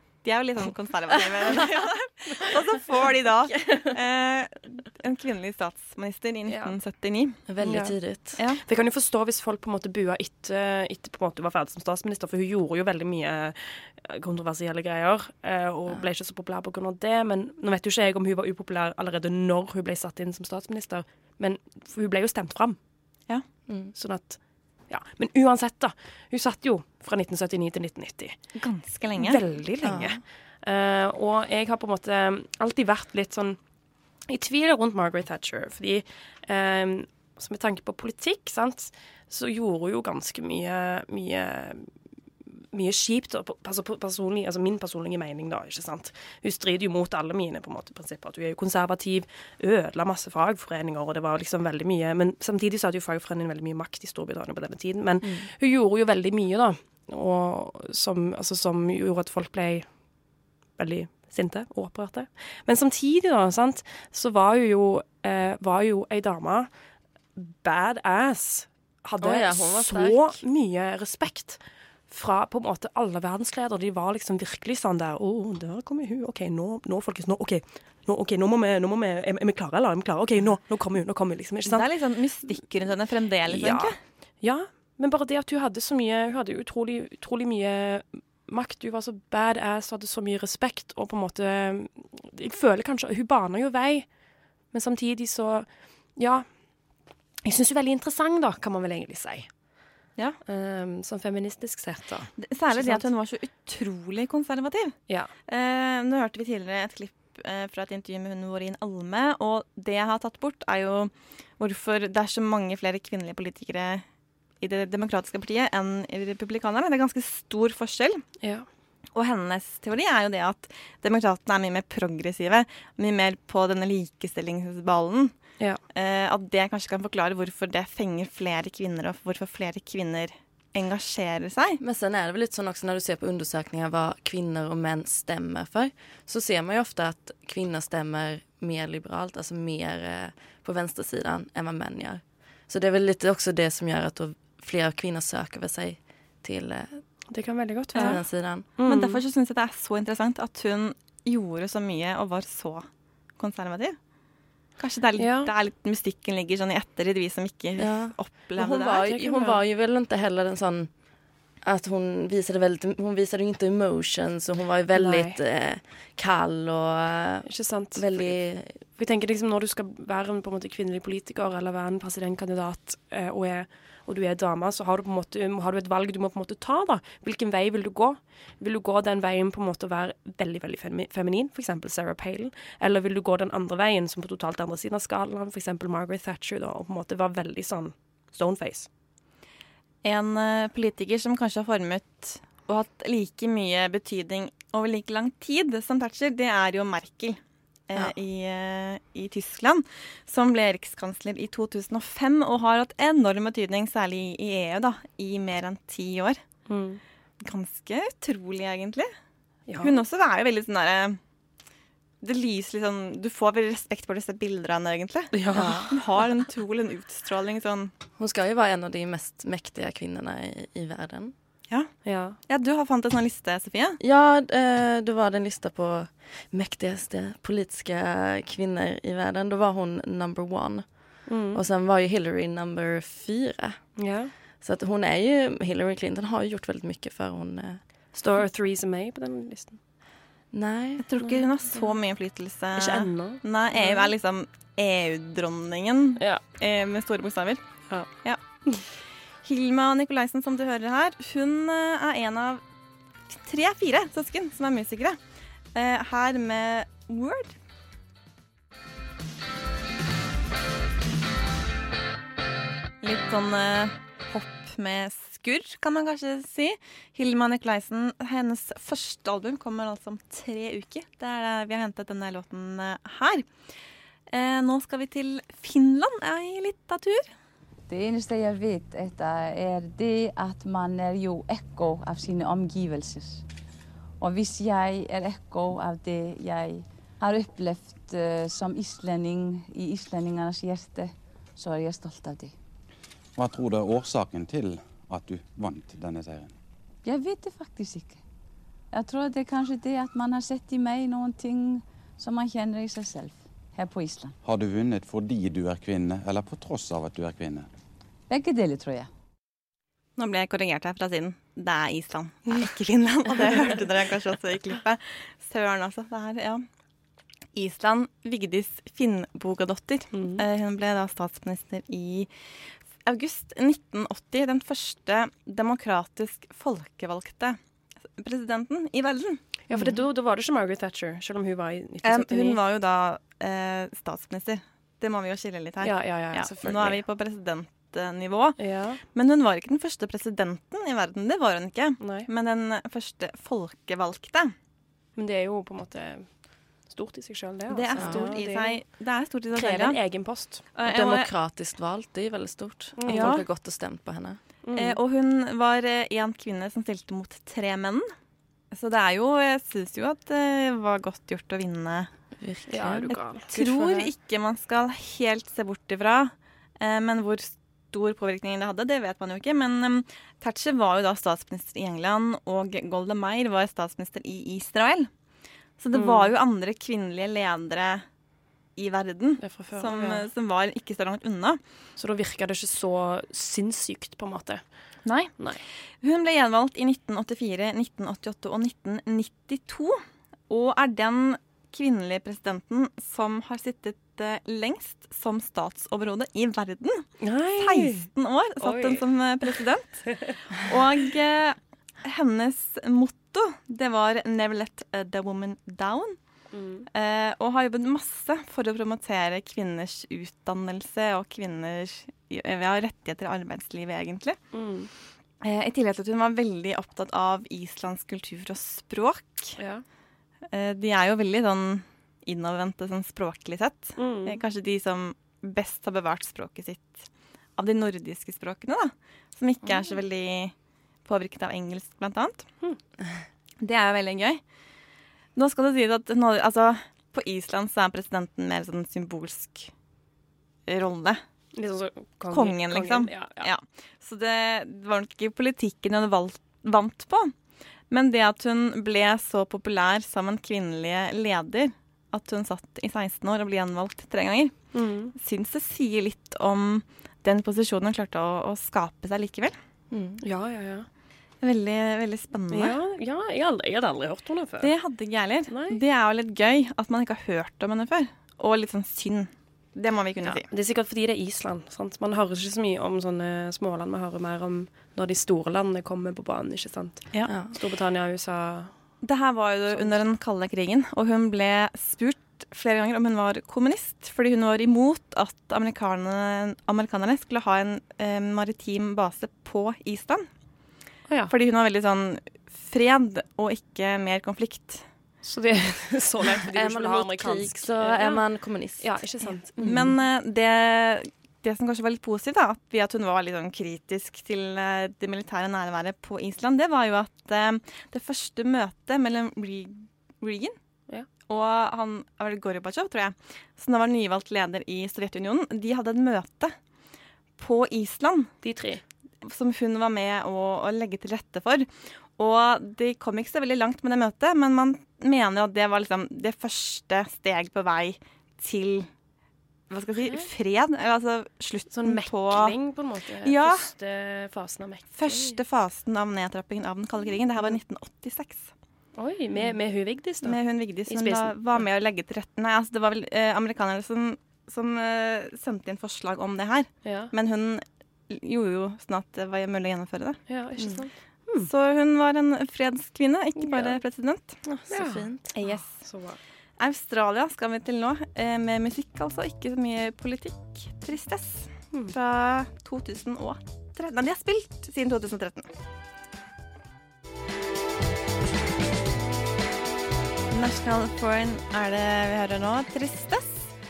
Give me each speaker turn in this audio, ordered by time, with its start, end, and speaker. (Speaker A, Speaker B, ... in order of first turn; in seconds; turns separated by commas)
Speaker A: 0.2-7.8, Speaker B: 6.5-6.8, Speaker C: 7.5-8.4, Speaker B: 7.6-22.8, Speaker A: 8.4-8.6, Speaker C: 23.7-23.9, Speaker B: 23.9-28.4, Speaker A: 28.6-30.1, Speaker B: 29.2-33.6, Speaker C: 29.8-30.2, Speaker B: 34.3-41.9, Speaker B: 42.7-60.0, Speaker C: 55.2-55.5, Speaker B: 60.8-66.7, Speaker B: 67.4-94.1, Speaker C: 69.2-70.4, Speaker A: 81.7-84.0, Speaker B: 94.7-96.5, Speaker B: 97.4-99.5, Speaker B: 100.5-103.1, Speaker A: 102.4-105.0, Speaker A: 105.5-114.0, Speaker A: 114.6-118.2, Speaker B: 118.4-118.7, Speaker A: 119.2-125.4, Speaker A: 125.9-131.8, Speaker C: 131.8-147.1, Speaker B: 147.3-149.2, Speaker A: 147.9-154.0, Speaker C: 148.0-148.7, Speaker A: 154.8-159.1, Speaker B: 155.2-155.5, Speaker C: 157.8-161.0, Speaker B: 159.0-159.6, Speaker C: 161.6-168.9, Speaker B: 164.9-165.4, Speaker B: 167.4-188.9, Speaker A: 190.0-206.4, Speaker B: 206.7-207.0, Speaker A: 207.4-209.1, Speaker B: 209.7-210.0, Speaker A: 209.8-211.2, Speaker A: 212.2-217.9, Speaker B: 215.3-216.0, Speaker C: 218.2-221.3, Speaker A: 221.7-224.0, Speaker B: 222.1-222.4, Speaker C: 224.0-233.8, Speaker B: 231.3-231.6, Speaker B: 234.0-234.3, Speaker C: 234.5-237.8, Speaker B: 238.1-239.8, Speaker C: 240.5-241.1, Speaker A: 241.0-247.6, Speaker B: 241.2-242.0, Speaker B: 242.8-244.1, Speaker B: 246.2-246.4, Speaker A: 248.2-252.6, Speaker A: 253.3-255.2, Speaker A: 255.8-257.5, Speaker A: 263.0-273.5, Speaker A: 274.3-277.3, Speaker D: 277.9-283.4, Speaker D: 284.2-292.5, Speaker E: 293.4-296.5, Speaker D: 297.0-298.2, Speaker D: 298.9-304.4, Speaker E: 304.4-307.7, Speaker D: 308.3-309.1, Speaker A: 310.2-316.6, Speaker A: 317.6-322.3, Speaker B: 320.1-320.5, Speaker A: 323.0-327.6, Speaker A: 328.2-330.0, Speaker B: 329.7-332.6, Speaker A: 332.0-344.5, Speaker B: 335.8-337.0, Speaker B: 338.6-339.0, Speaker B: 342.0-342.3, Speaker B: 345.2-348.9, Speaker A: 347.7-351.4, Speaker C: 347.9-348.4, Speaker B: 349.5-350.8, Speaker C: 350.8-354.4, Speaker B: 352.9-353.5, Speaker A: 353.1-353.5, Speaker B: 354.6-355.0, Speaker A: 354.8-358.1, Speaker A: 358.7-362.1, Speaker C: 362.4-363.6, Speaker B: 362.7-364.1, Speaker A: 363.5-375.1, Speaker A: 375.8-378.1, Speaker B: 375.9-376.3, Speaker A: 378.8-381.6, Speaker B: 379.4-380.3, Speaker B: 382.0-384.6, Speaker A: 385.1-406.2, Speaker B: 397.2-398.1, Speaker B: 398.6-399.1, Speaker B: 400.1-400.4, Speaker B: 406.5-406.9, Speaker A: 406.9-414.4, Speaker B: 414.5-414.9, Speaker A: 415.4-419.6, Speaker B: 419.6-419.8, Speaker A: 420.5-430.5, Speaker B: 424.0-424.4, Speaker B: 429.6-430.0, Speaker A: 431.1-432.5, Speaker A: 433.6-434.4, Speaker A: 435.4-439.7, Speaker A: 440.7-441.2, Speaker B: 441.6-443.5, Speaker A: 442.3-447.3, Speaker A: 447.9-454.6, Speaker B: 454.7-455.1, Speaker A: 455.1-459.6, Speaker C: 459.9-460.2, Speaker B: 460.2-460.9, Speaker A: 461.4-462.8, Speaker B: 462.5-464.7, Speaker A: 464.6-470.5, Speaker B: 465.5-465.8, Speaker B: 470.2-478.7, Speaker C: 477.2-477.6, Speaker A: 479.0-490.3, Speaker B: 479.7-480.0, Speaker B: 491.1-491.3, Speaker A: 491.3-494.9, Speaker B: 495.2-499.9, Speaker C: 496.5-499.1, Speaker A: 499.3-510.6, Speaker A: 511.3-516.5, Speaker A: 517.4-518.3, Speaker B: 518.4-518.8, Speaker A: 519.2-528.9, Speaker A: 529.7-532.6, Speaker B: 530.0-530.3, Speaker B: 531.7-535.4, Speaker A: 533.2-533.7, Speaker A: 534.9-538.5, Speaker B: 539.0-541.7, Speaker A: 540.2-550.2, Speaker B: 546.8-547.1, Speaker B: 550.3-551.5, Speaker A: 551.4-554.4, Speaker B: 553.4-553.8, Speaker B: 554.4-556.2, Speaker C: 554.7-555.3, Speaker A: 555.3-555.8, Speaker A: 556.6-565.5, Speaker A: 570.3-573.5